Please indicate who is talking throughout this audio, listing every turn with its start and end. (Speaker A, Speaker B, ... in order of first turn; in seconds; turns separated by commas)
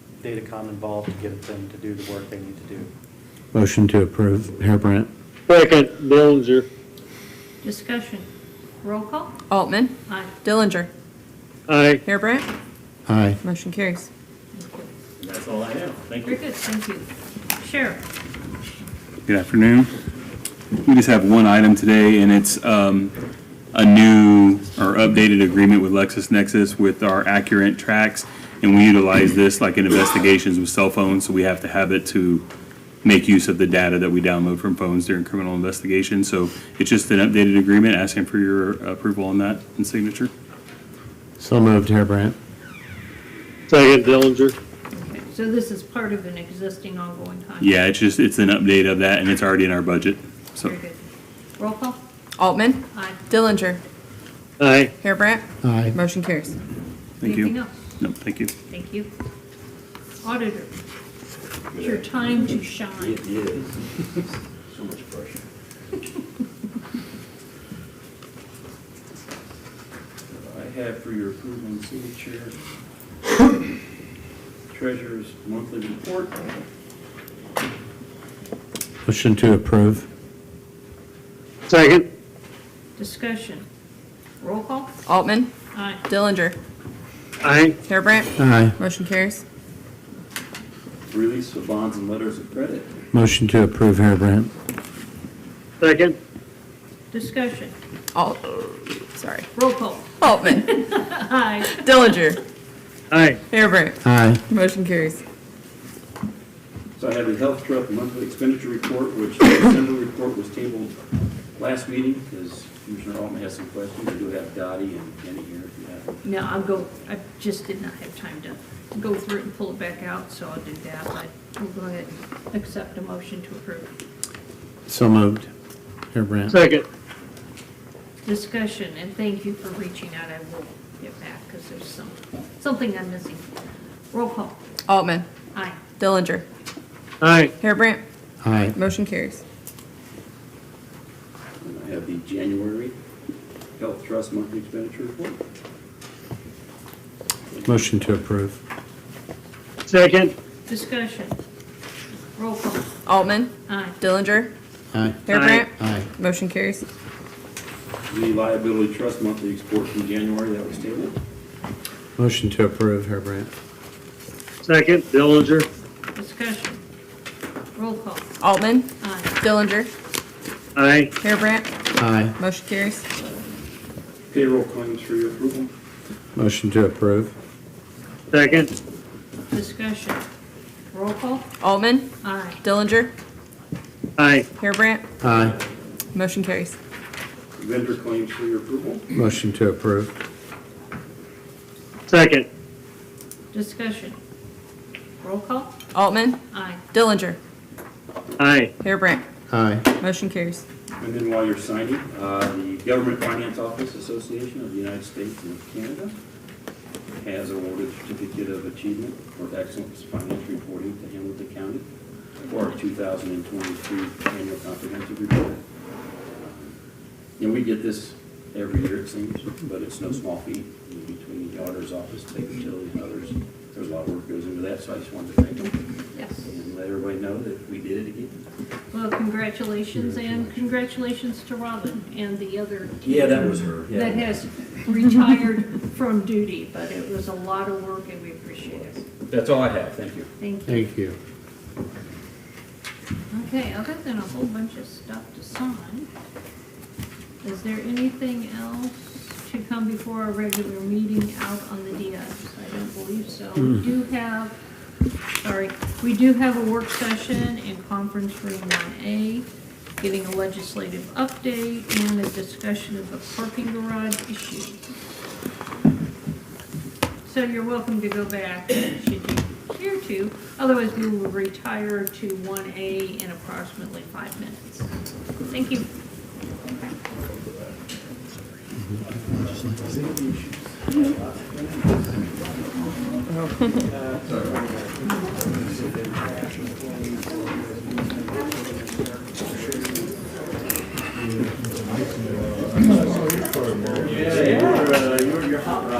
Speaker A: 0.2-2.9, Speaker B: 3.5-5.1, Speaker C: 5.5-6.7, Speaker D: 7.6-8.3, Speaker D: 8.8-9.4, Speaker E: 9.5-10.9, Speaker D: 10.1-10.3, Speaker C: 11.7-12.0, Speaker E: 12.0-12.5, Speaker B: 13.1-13.4, Speaker E: 13.4-14.1, Speaker D: 14.6-14.9, Speaker F: 15.2-16.3, Speaker D: 16.2-18.0, Speaker F: 19.3-19.9, Speaker F: 20.8-23.1, Speaker F: 23.7-32.4, Speaker F: 33.0-40.3, Speaker B: 41.4-42.4, Speaker C: 43.7-44.5, Speaker D: 44.9-47.8, Speaker F: 47.6-50.7, Speaker D: 50.5-51.0, Speaker D: 51.6-52.0, Speaker E: 52.4-53.8, Speaker D: 52.9-53.2, Speaker C: 54.6-54.9, Speaker E: 55.0-56.5, Speaker B: 55.6-56.0, Speaker D: 57.2-58.0, Speaker F: 57.2-58.5, Speaker D: 58.7-59.1, Speaker D: 60.2-60.7, Speaker G: 61.7-62.1, Speaker D: 61.7-63.2, Speaker G: 63.0-65.4, Speaker G: 70.3-72.6, Speaker G: 74.7-76.5, Speaker B: 79.0-80.1, Speaker C: 81.7-82.0, Speaker D: 83.0-83.6, Speaker D: 84.4-84.9, Speaker E: 85.1-85.5, Speaker D: 85.7-86.0, Speaker E: 86.1-86.6, Speaker C: 87.4-87.8, Speaker E: 87.9-89.4, Speaker B: 88.4-88.8, Speaker G: 91.1-92.9, Speaker B: 93.1-94.5, Speaker C: 95.8-96.2, Speaker D: 97.1-97.8, Speaker E: 98.1-99.5, Speaker D: 99.5-101.8, Speaker E: 100.2-100.8, Speaker E: 101.6-102.4, Speaker C: 103.1-103.4, Speaker E: 103.5-105.2, Speaker B: 104.0-104.4, Speaker G: 107.0-110.9, Speaker G: 111.6-116.2, Speaker D: 116.2-123.9, Speaker B: 124.9-125.5, Speaker B: 126.1-126.6, Speaker C: 126.5-126.8, Speaker D: 128.2-133.5, Speaker D: 134.1-134.6, Speaker E: 134.9-135.3, Speaker D: 135.5-135.8, Speaker E: 136.0-136.4, Speaker C: 137.2-137.5, Speaker E: 137.6-138.0, Speaker B: 138.4-138.8, Speaker E: 138.8-139.4, Speaker G: 141.6-142.9, Speaker G: 143.8-145.4, Speaker B: 147.7-148.6, Speaker C: 149.8-150.3, Speaker D: 150.7-151.4, Speaker D: 152.4-153.0, Speaker E: 153.1-154.5, Speaker D: 153.7-154.0, Speaker B: 154.9-155.2, Speaker E: 155.3-156.8, Speaker C: 155.3-155.7, Speaker B: 155.7-156.1, Speaker G: 158.1-161.2, Speaker B: 162.2-163.5, Speaker C: 164.6-165.7, Speaker D: 166.2-166.8, Speaker D: 167.8-168.3, Speaker E: 168.4-169.9, Speaker D: 169.0-169.4, Speaker C: 170.8-171.1, Speaker E: 171.2-171.7, Speaker B: 172.0-172.3, Speaker E: 172.4-173.0, Speaker G: 174.3-175.7, Speaker B: 176.3-177.3, Speaker C: 178.3-178.7, Speaker D: 179.5-180.2, Speaker D: 180.9-181.5, Speaker E: 181.6-183.1, Speaker D: 182.2-182.6, Speaker C: 184.2-184.5, Speaker E: 184.6-185.0, Speaker B: 185.2-185.6, Speaker E: 186.1-186.8, Speaker G: 187.6-189.1, Speaker B: 189.1-190.1, Speaker C: 192.1-192.5, Speaker D: 193.5-194.2, Speaker D: 195.2-195.8, Speaker E: 195.9-196.4, Speaker D: 196.5-196.8, Speaker E: 196.9-197.4, Speaker C: 198.4-198.7, Speaker E: 198.8-199.2, Speaker B: 199.5-199.8, Speaker E: 199.9-200.6, Speaker G: 201.0-206.2, Speaker G: 207.2-211.8, Speaker G: 212.4-215.6, Speaker G: 216.3-216.8, Speaker G: 217.4-225.8, Speaker D: 226.1-226.5, Speaker G: 226.4-228.4, Speaker D: 228.9-239.0, Speaker G: 233.0-234.4, Speaker G: 239.3-240.3, Speaker D: 240.4-240.9, Speaker B: 240.7-241.2, Speaker D: 243.3-246.1, Speaker D: 247.4-254.6, Speaker D: 255.4-259.5, Speaker D: 260.0-264.9, Speaker D: 267.2-274.9, Speaker D: 275.5-275.9, Speaker G: 279.7-280.4, Speaker G: 281.9-282.4, Speaker E: 283.3-283.9